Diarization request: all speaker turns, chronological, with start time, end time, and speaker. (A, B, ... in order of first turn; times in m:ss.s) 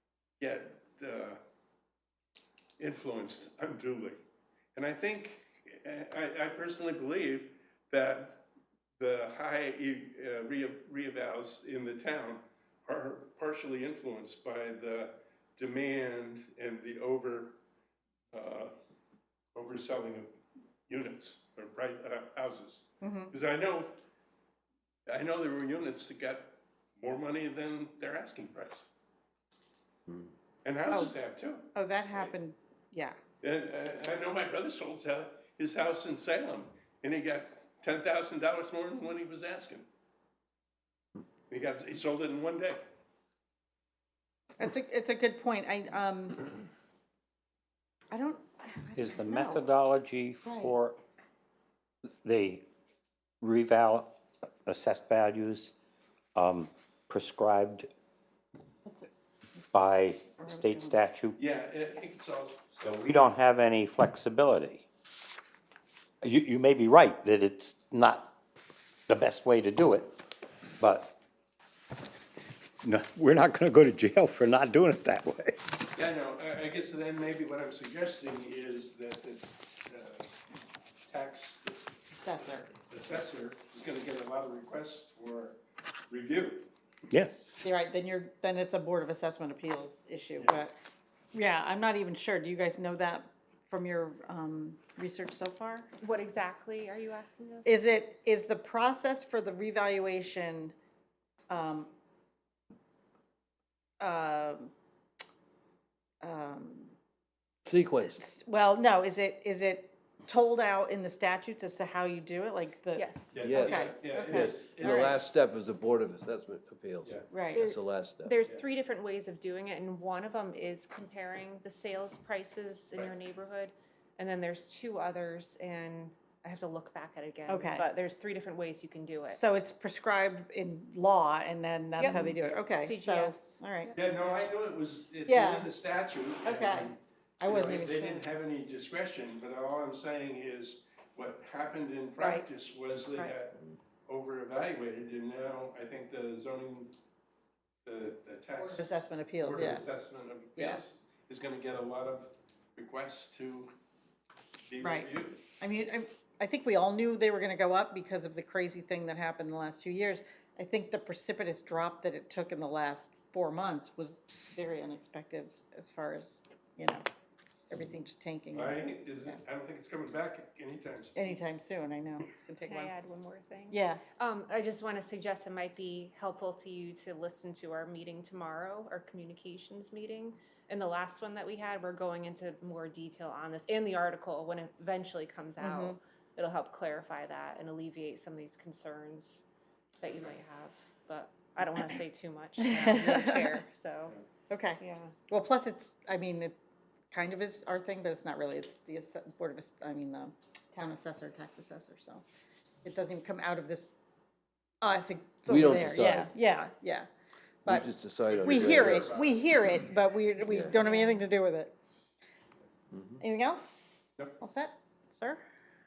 0:00.4-0:01.4 A
0:02.8-0:04.2 A
0:04.7-0:08.4 A
0:09.0-0:17.6 A
0:18.3-0:18.7 A
0:19.5-0:20.3 A
0:20.9-0:24.0 A
0:23.0-0:23.3 B
0:25.1-0:28.9 A
0:30.6-0:32.3 A
0:30.9-0:31.2 B
0:31.7-0:33.2 B
0:33.4-0:39.8 A
0:41.5-0:42.8 A
0:44.6-0:46.5 B
0:48.1-0:49.7 B
0:49.0-0:51.0 C
0:50.4-0:50.8 B
0:52.2-0:52.7 C
0:53.4-0:55.7 C
0:56.3-0:57.9 C
0:59.7-1:01.4 C
1:00.4-1:01.0 B
1:01.4-1:03.1 A
1:02.8-1:04.9 C
1:06.2-1:08.3 C
1:09.1-1:10.2 C
1:10.8-1:11.1 C
1:12.8-1:15.6 C
1:15.9-1:20.3 A
1:21.1-1:21.9 A
1:22.1-1:22.7 B
1:22.7-1:25.6 A
1:26.1-1:26.7 A
1:27.1-1:27.6 C
1:27.5-1:30.8 B
1:31.3-1:35.9 B
1:36.0-1:37.8 D
1:37.6-1:40.7 B
1:41.5-1:41.9 B
1:44.0-1:44.7 B
1:46.2-1:46.9 B
1:47.6-1:48.2 E
1:48.1-1:55.2 B
1:52.9-1:53.4 D
1:53.3-1:55.2 A
1:53.4-1:58.4 E
1:57.3-1:57.6 B
1:57.5-2:09.4 D
2:07.5-2:07.9 B
2:09.3-2:13.9 B
2:12.0-2:14.3 D
2:13.9-2:26.9 A
2:15.2-2:15.7 B
2:16.4-2:18.2 B
2:27.8-2:33.7 A
2:28.6-2:29.9 B
2:30.6-2:30.8 B
2:34.7-2:35.4 A
2:34.8-2:47.0 B
2:47.7-2:49.4 B
2:48.5-2:51.3 A
2:51.2-2:52.9 B
2:52.6-3:09.4 D
2:53.7-2:54.0 B
3:05.6-3:06.0 B
3:10.0-3:14.2 D
3:12.6-3:13.6 B
3:14.5-3:16.5 B
3:14.8-3:15.1 D
3:17.1-3:22.2 B
3:22.8-3:23.9 B
3:24.8-3:27.1 B
3:25.4-3:26.3 E
3:27.6-3:29.2 E
3:28.2-3:29.8 A
3:28.4-3:31.7 B
3:30.4-3:30.9 E
3:30.7-3:31.3 D
3:32.9-3:33.2 E
3:33.2-3:35.4 B